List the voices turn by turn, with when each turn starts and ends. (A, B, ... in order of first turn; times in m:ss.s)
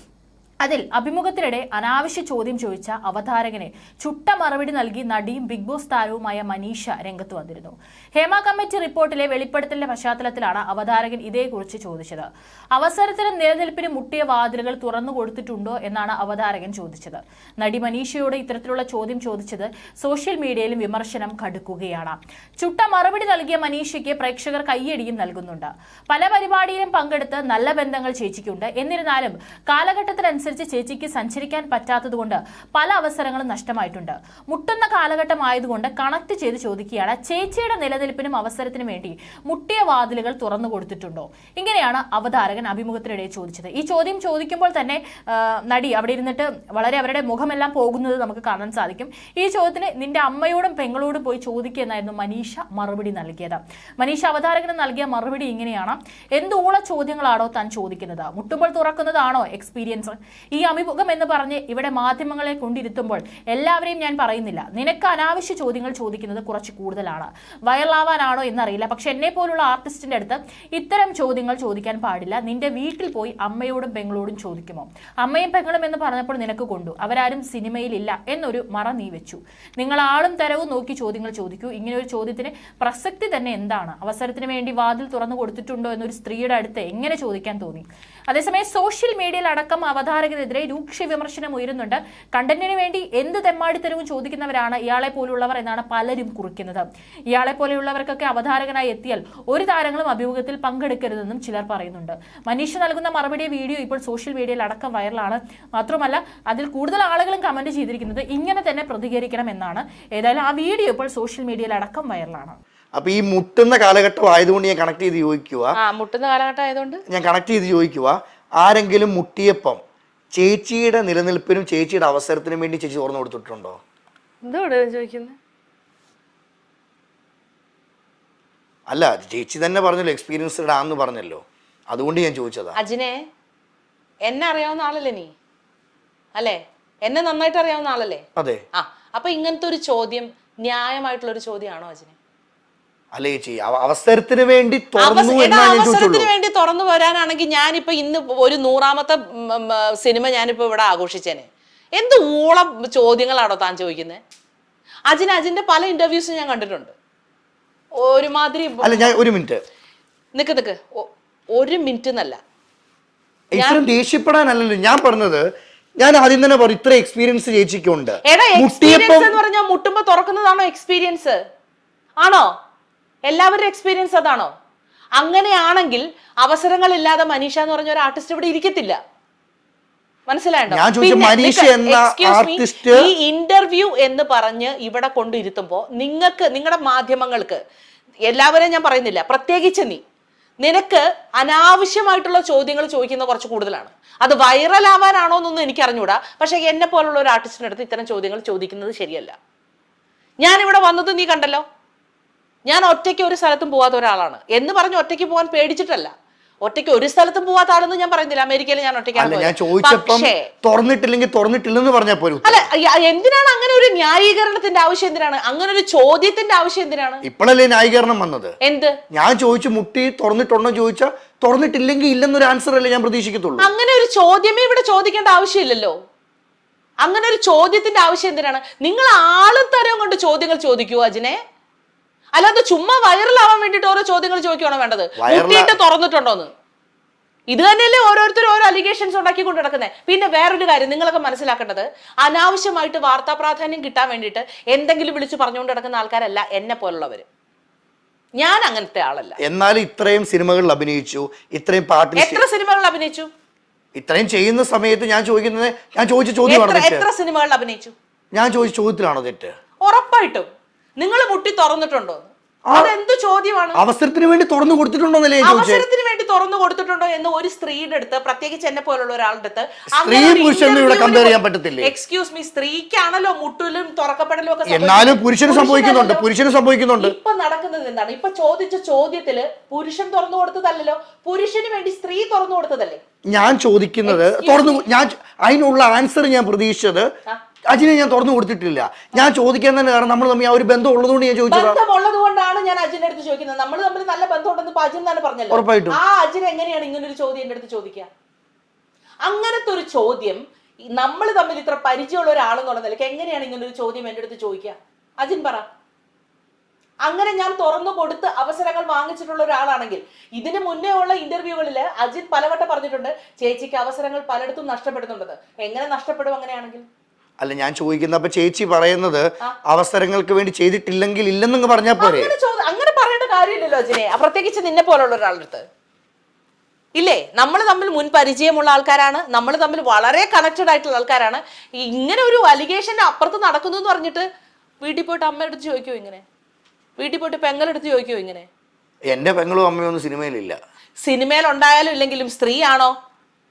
0:00.6-1:52.6 A
1:52.9-1:55.8 B
1:55.8-1:57.0 C
1:57.1-1:59.8 B
2:00.3-2:03.8 B
2:04.4-2:05.4 C
2:08.9-2:12.8 B
2:12.8-2:13.2 C
2:14.2-2:15.3 C
2:16.4-2:18.2 C
2:18.4-2:18.6 B
2:18.7-2:22.2 C
2:23.1-2:26.3 B
2:25.0-2:34.2 C
2:35.1-2:36.9 C
2:38.0-2:39.1 C
2:38.8-2:39.6 B
2:40.3-2:42.4 C
2:43.5-2:49.4 B
2:43.5-2:43.8 C
2:48.2-2:51.4 C
2:52.2-2:52.5 C
2:53.2-2:54.5 C
2:55.2-2:59.0 C
3:00.3-3:07.6 C
3:00.7-3:03.1 B
3:08.3-3:10.0 C
3:10.6-3:19.4 C
3:20.4-3:21.6 C
3:22.7-3:26.1 C
3:26.6-3:30.5 C
3:29.1-3:32.6 B
3:32.4-3:37.2 C
3:37.2-3:38.5 B
3:38.6-3:39.0 C
3:39.1-3:43.7 B
3:43.6-3:45.9 C
3:47.0-3:51.4 C
3:52.4-3:56.5 C
3:55.2-3:55.7 B
3:57.5-4:07.2 C
4:08.4-4:09.4 C
4:09.4-4:12.4 B
4:12.2-4:13.3 C
4:13.9-4:17.0 B
4:16.5-4:17.9 C
4:18.3-4:19.5 B
4:19.8-4:23.8 C
4:22.6-4:22.9 B
4:23.7-4:25.8 B
4:25.4-4:36.3 C
4:30.0-4:31.9 B
4:34.7-4:37.1 B
4:37.0-4:43.0 C
4:43.3-4:47.1 B
4:44.0-4:44.8 C
4:47.7-4:51.8 B
4:51.5-4:58.1 C
4:55.5-4:56.0 B
4:59.2-5:00.4 C
5:01.0-5:05.7 C
5:07.0-5:16.8 C
5:17.4-5:22.3 B
5:22.0-5:25.6 C
5:27.0-5:34.2 C
5:34.8-5:36.2 C
5:37.0-5:38.5 C
5:39.1-5:40.6 B
5:41.0-5:42.9 C